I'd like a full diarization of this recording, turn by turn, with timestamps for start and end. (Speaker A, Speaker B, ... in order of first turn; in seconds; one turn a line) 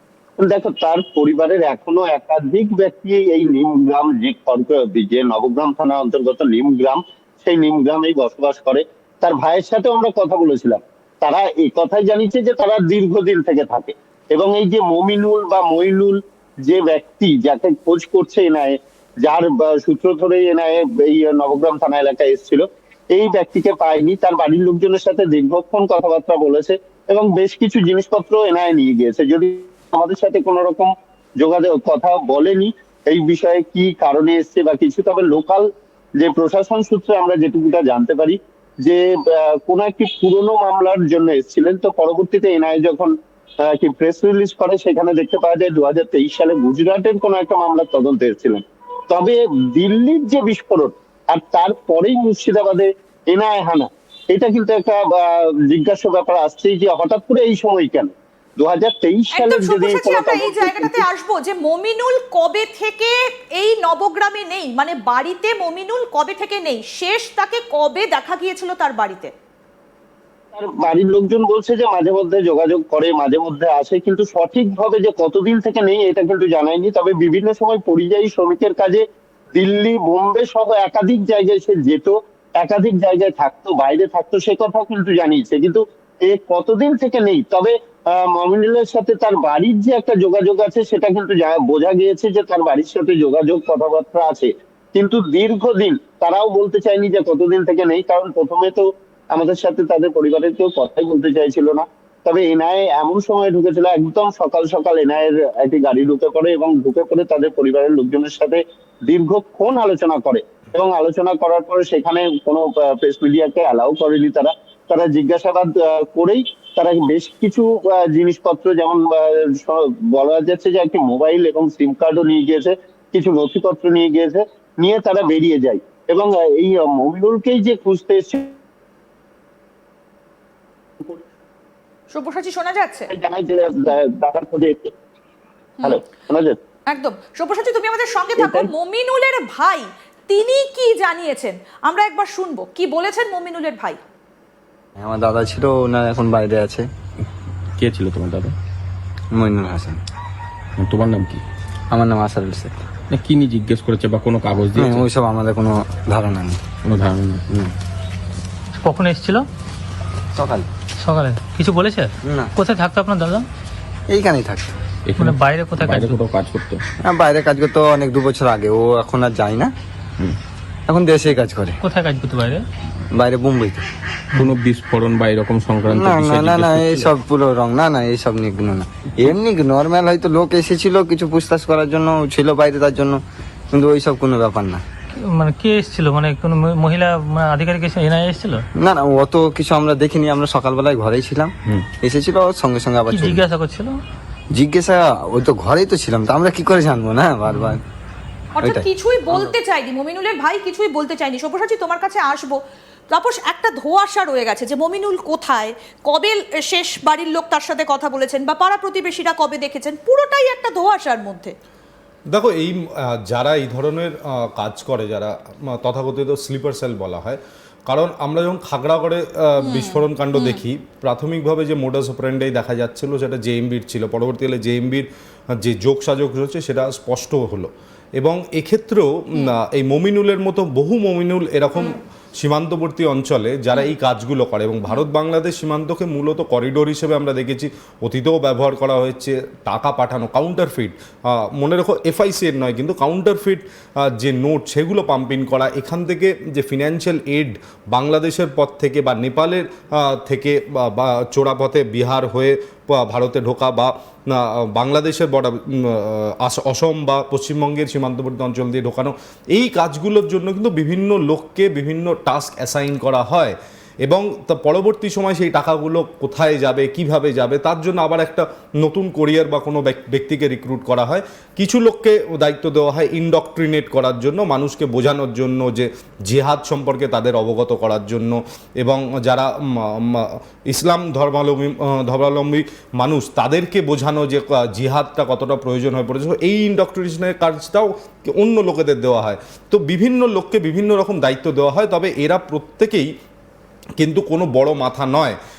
Speaker A: 0.4-61.0
Speaker B: 59.3-69.3
Speaker A: 70.5-128.5
Speaker B: 132.1-133.1
Speaker A: 133.1-134.9
Speaker A: 135.8-136.6
Speaker B: 136.9-144.0
Speaker A: 138.4-138.7
Speaker C: 145.0-146.9
Speaker D: 147.8-148.5
Speaker C: 149.3-150.0
Speaker D: 150.8-151.4
Speaker C: 151.9-152.8
Speaker D: 153.1-155.1
Speaker C: 154.8-156.6
Speaker D: 156.8-157.4
Speaker C: 157.5-157.7
Speaker E: 158.8-159.4
Speaker C: 160.3-160.7
Speaker E: 161.0-163.4
Speaker C: 162.2-162.5
Speaker C: 164.1-164.8
Speaker D: 165.1-166.8
Speaker E: 165.2-166.2
Speaker C: 167.0-169.7
Speaker C: 170.9-171.8
Speaker E: 171.8-172.6
Speaker C: 173.1-173.8
Speaker D: 174.3-177.1
Speaker C: 175.9-183.2
Speaker C: 183.7-184.8
Speaker E: 185.2-188.6
Speaker C: 188.8-193.4
Speaker E: 193.1-194.0
Speaker C: 194.5-197.8
Speaker B: 198.6-202.6
Speaker C: 198.6-199.5
Speaker B: 203.1-211.5
Speaker F: 212.3-225.1
Speaker B: 219.6-220.6
Speaker F: 225.6-293.1
Speaker F: 294.0-295.4